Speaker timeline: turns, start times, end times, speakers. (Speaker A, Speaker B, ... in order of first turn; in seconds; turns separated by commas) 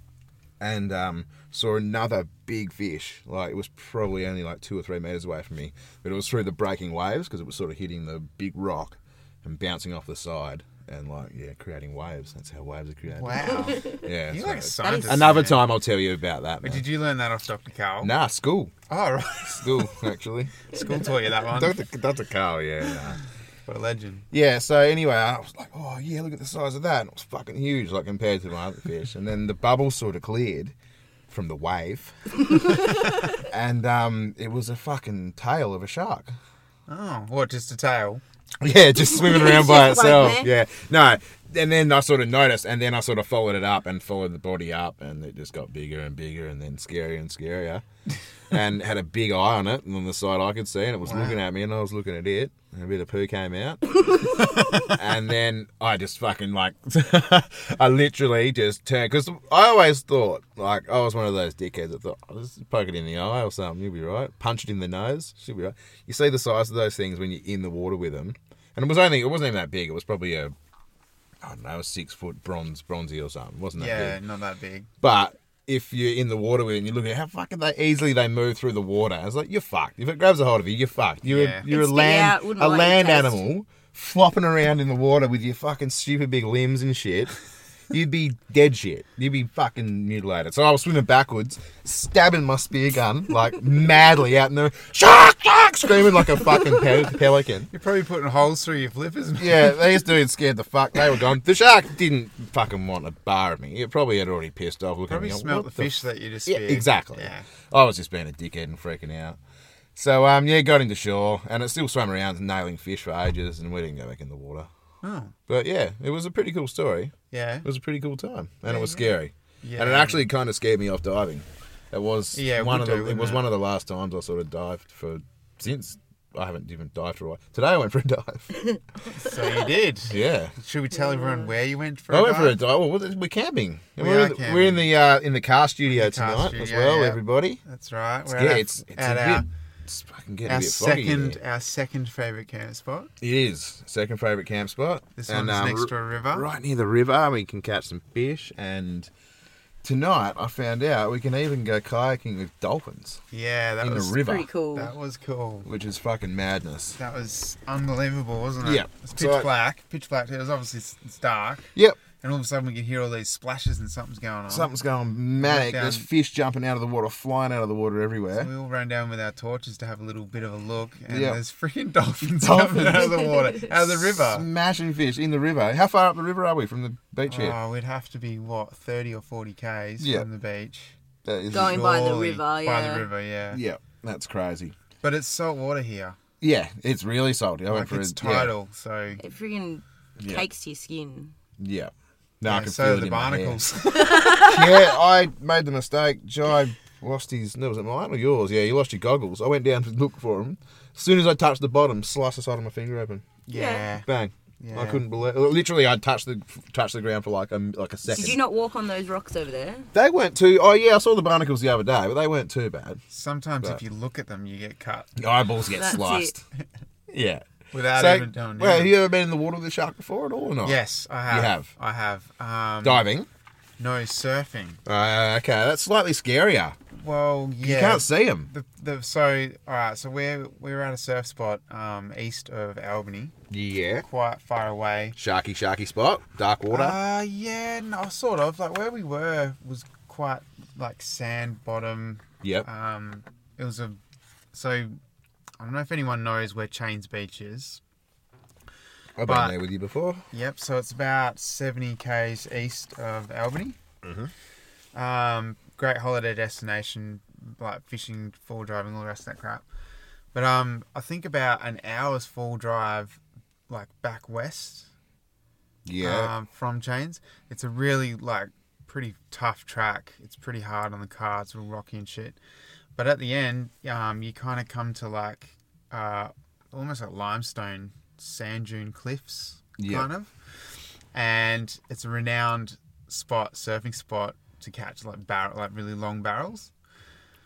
Speaker A: 0.6-16.8, Speaker B: 13.1-15.6, Speaker C: 14.8-15.3, Speaker B: 16.6-18.1, Speaker A: 18.0-18.7, Speaker B: 18.9-19.9, Speaker A: 19.5-23.2, Speaker B: 20.7-21.8, Speaker B: 23.7-24.2, Speaker A: 24.3-30.7, Speaker A: 31.3-36.3, Speaker B: 36.9-38.2, Speaker A: 38.6-47.8, Speaker C: 39.1-40.5, Speaker A: 48.5-54.3, Speaker B: 51.0-51.4, Speaker A: 54.8-70.5, Speaker A: 71.4-74.2, Speaker B: 73.8-74.9, Speaker A: 75.0-87.4, Speaker B: 81.2-81.7, Speaker C: 81.7-83.4, Speaker A: 87.9-97.7, Speaker B: 97.7-100.0, Speaker A: 99.4-105.9, Speaker B: 105.1-107.4, Speaker A: 106.5-109.4, Speaker A: 109.9-114.7, Speaker B: 115.0-115.3, Speaker A: 115.5-128.5, Speaker B: 117.3-117.7, Speaker B: 118.7-120.2, Speaker B: 122.3-123.4, Speaker B: 129.1-132.6, Speaker A: 130.1-130.5, Speaker A: 132.1-137.6, Speaker B: 134.0-134.9, Speaker B: 135.8-139.5, Speaker A: 138.3-141.4, Speaker B: 140.4-143.1, Speaker A: 143.2-149.1, Speaker B: 145.2-146.5, Speaker A: 149.8-153.2, Speaker B: 153.3-155.7, Speaker A: 153.8-154.5, Speaker C: 154.2-154.9, Speaker A: 155.7-157.0, Speaker B: 156.9-164.7, Speaker A: 158.6-159.5, Speaker A: 164.5-168.5, Speaker B: 165.4-166.1, Speaker B: 168.3-174.5, Speaker A: 171.1-171.4, Speaker A: 172.4-177.6, Speaker B: 177.2-180.9, Speaker A: 180.0-180.3, Speaker A: 181.2-181.9, Speaker C: 181.5-183.1, Speaker B: 181.5-183.6, Speaker A: 183.5-184.7, Speaker B: 185.0-186.2, Speaker A: 186.4-188.5, Speaker B: 187.7-189.2, Speaker C: 189.2-191.3, Speaker A: 190.2-190.5, Speaker A: 191.6-203.2, Speaker B: 192.4-194.3, Speaker C: 194.0-194.8, Speaker B: 203.5-204.1, Speaker C: 203.5-203.8, Speaker A: 204.0-208.4, Speaker B: 204.6-205.0, Speaker C: 208.1-209.9, Speaker A: 209.9-213.0, Speaker B: 213.1-215.1, Speaker A: 215.2-216.4, Speaker C: 215.7-216.3, Speaker A: 217.1-221.7, Speaker B: 217.7-218.9, Speaker B: 220.6-223.0, Speaker A: 222.8-223.3, Speaker B: 223.8-224.8, Speaker A: 224.8-226.8, Speaker B: 226.9-233.3, Speaker A: 227.6-228.5, Speaker A: 233.5-234.0, Speaker B: 234.0-235.2, Speaker A: 235.2-237.0, Speaker B: 236.7-244.0, Speaker A: 242.4-242.7, Speaker B: 244.5-244.9, Speaker B: 245.6-247.8, Speaker A: 249.2-250.2, Speaker B: 249.2-249.6, Speaker B: 250.3-253.8, Speaker A: 254.0-254.3, Speaker B: 254.9-259.6, Speaker B: 260.3-264.9, Speaker A: 265.9-266.3, Speaker B: 266.0-272.4, Speaker B: 272.9-280.3, Speaker A: 279.8-280.1, Speaker B: 281.1-286.7